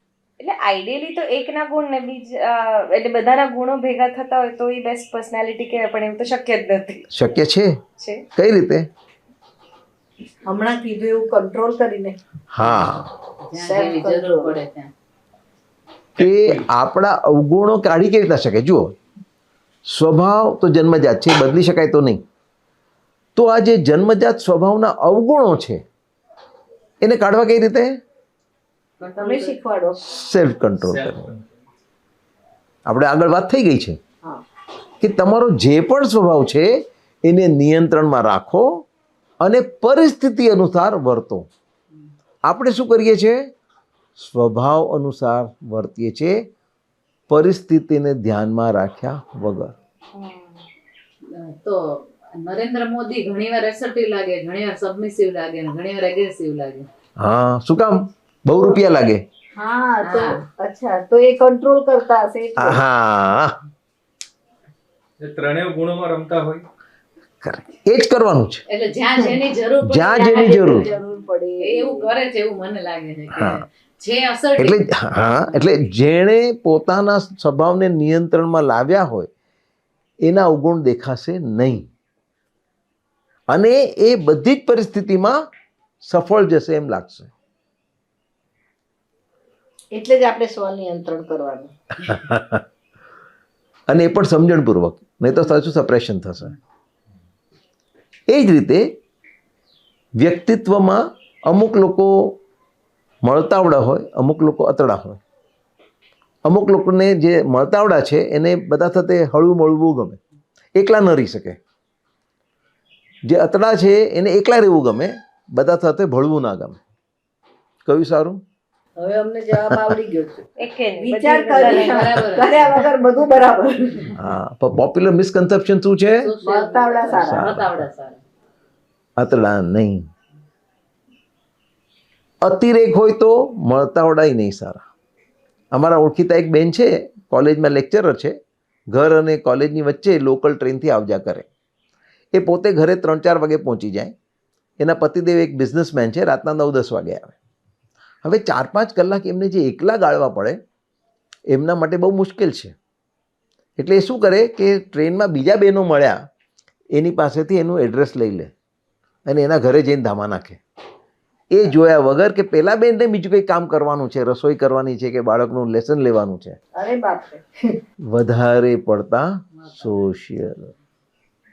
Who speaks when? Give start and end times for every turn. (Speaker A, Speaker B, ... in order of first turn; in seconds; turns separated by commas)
Speaker A: 0.4-7.1, Speaker B: 7.1-7.8, Speaker A: 8.0-8.2, Speaker B: 8.3-8.9, Speaker C: 10.5-12.2, Speaker B: 12.5-13.1, Speaker D: 13.4-14.9, Speaker C: 13.6-14.6, Speaker B: 16.2-19.0, Speaker E: 16.2-16.6, Speaker B: 19.9-22.2, Speaker B: 23.4-25.8, Speaker B: 27.0-28.0, Speaker D: 29.0-29.6, Speaker C: 29.1-30.0, Speaker B: 30.0-31.4, Speaker E: 30.8-31.5, Speaker B: 32.9-34.0, Speaker B: 35.0-38.9, Speaker B: 39.4-41.5, Speaker B: 42.5-43.4, Speaker B: 44.2-46.5, Speaker B: 47.3-49.8, Speaker A: 50.1-50.6, Speaker D: 51.3-56.9, Speaker B: 57.2-59.2, Speaker C: 59.6-62.8, Speaker D: 60.0-60.4, Speaker B: 62.6-63.6, Speaker E: 65.2-66.7, Speaker B: 67.4-68.6, Speaker D: 68.7-71.0, Speaker B: 69.8-70.9, Speaker C: 70.1-72.1, Speaker D: 71.6-74.8, Speaker B: 73.3-73.6, Speaker B: 74.6-79.3, Speaker B: 80.2-81.9, Speaker B: 83.5-85.4, Speaker B: 86.0-87.3, Speaker C: 89.9-91.7, Speaker B: 92.0-92.6, Speaker B: 93.9-96.5, Speaker B: 98.3-99.0, Speaker B: 100.2-102.4, Speaker B: 103.2-105.2, Speaker B: 106.5-110.2, Speaker B: 110.8-111.6, Speaker B: 113.3-116.8, Speaker B: 117.8-118.4, Speaker C: 119.0-124.2, Speaker A: 120.6-122.3, Speaker D: 121.5-122.8, Speaker B: 124.2-126.3, Speaker D: 126.2-128.2, Speaker C: 126.4-127.5, Speaker B: 127.2-127.8, Speaker B: 129.2-130.1, Speaker B: 132.4-134.8, Speaker B: 135.7-138.4, Speaker B: 138.9-141.5, Speaker B: 142.3-144.1, Speaker B: 144.8-147.3, Speaker B: 148.2-150.6, Speaker B: 151.5-152.8, Speaker B: 153.8-156.2, Speaker B: 156.9-158.5, Speaker B: 159.3-160.6, Speaker B: 161.5-166.6, Speaker C: 166.8-167.8, Speaker B: 168.1-170.7